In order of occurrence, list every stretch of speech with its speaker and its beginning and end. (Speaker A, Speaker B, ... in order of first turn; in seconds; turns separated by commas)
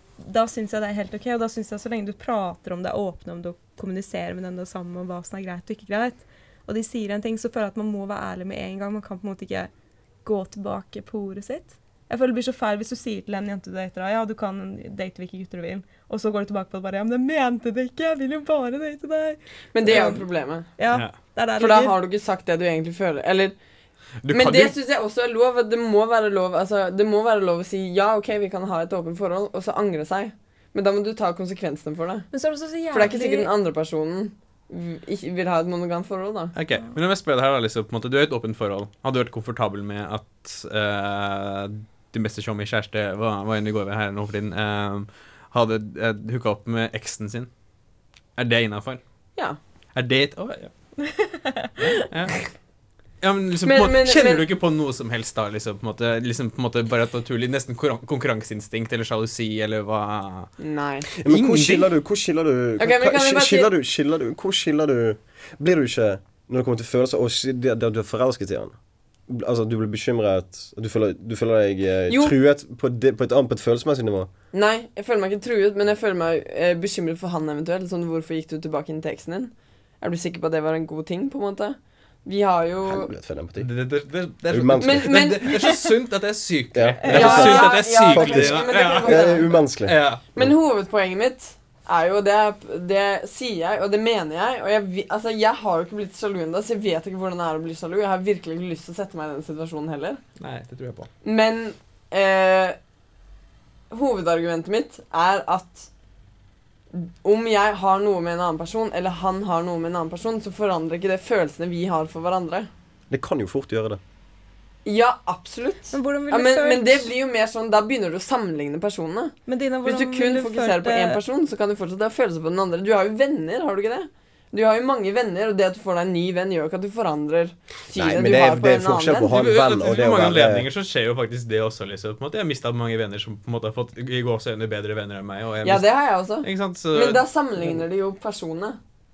Speaker A: 0.2-9.7, Speaker A: 10.2-20.2, Speaker B: 19.7-20.7, Speaker A: 20.8-22.0, Speaker C: 20.9-21.1, Speaker B: 21.6-23.5, Speaker C: 24.2-24.8, Speaker B: 24.3-32.3, Speaker A: 32.3-33.5, Speaker B: 32.9-36.5, Speaker C: 36.5-47.5, Speaker C: 48.4-49.0, Speaker C: 49.9-50.7, Speaker A: 51.0-52.1, Speaker C: 51.8-52.4, Speaker C: 53.2-60.5, Speaker B: 53.6-54.4, Speaker B: 60.6-61.1, Speaker D: 61.2-68.8, Speaker C: 61.2-61.9, Speaker B: 62.8-63.7, Speaker D: 69.3-74.3, Speaker B: 72.1-72.3, Speaker B: 74.5-83.1, Speaker D: 82.8-83.7, Speaker C: 83.6-90.2, Speaker D: 84.5-85.3, Speaker B: 84.8-85.8, Speaker D: 86.7-90.5, Speaker A: 87.0-87.8, Speaker B: 87.1-89.6, Speaker B: 90.3-100.2, Speaker C: 100.4-101.1, Speaker B: 101.2-102.8, Speaker B: 103.9-105.9, Speaker B: 106.9-112.7, Speaker D: 113.1-114.0, Speaker B: 114.8-129.3, Speaker A: 115.9-117.1, Speaker A: 119.5-121.2, Speaker D: 127.9-130.7, Speaker C: 129.3-135.9, Speaker B: 135.6-138.8, Speaker C: 136.4-137.8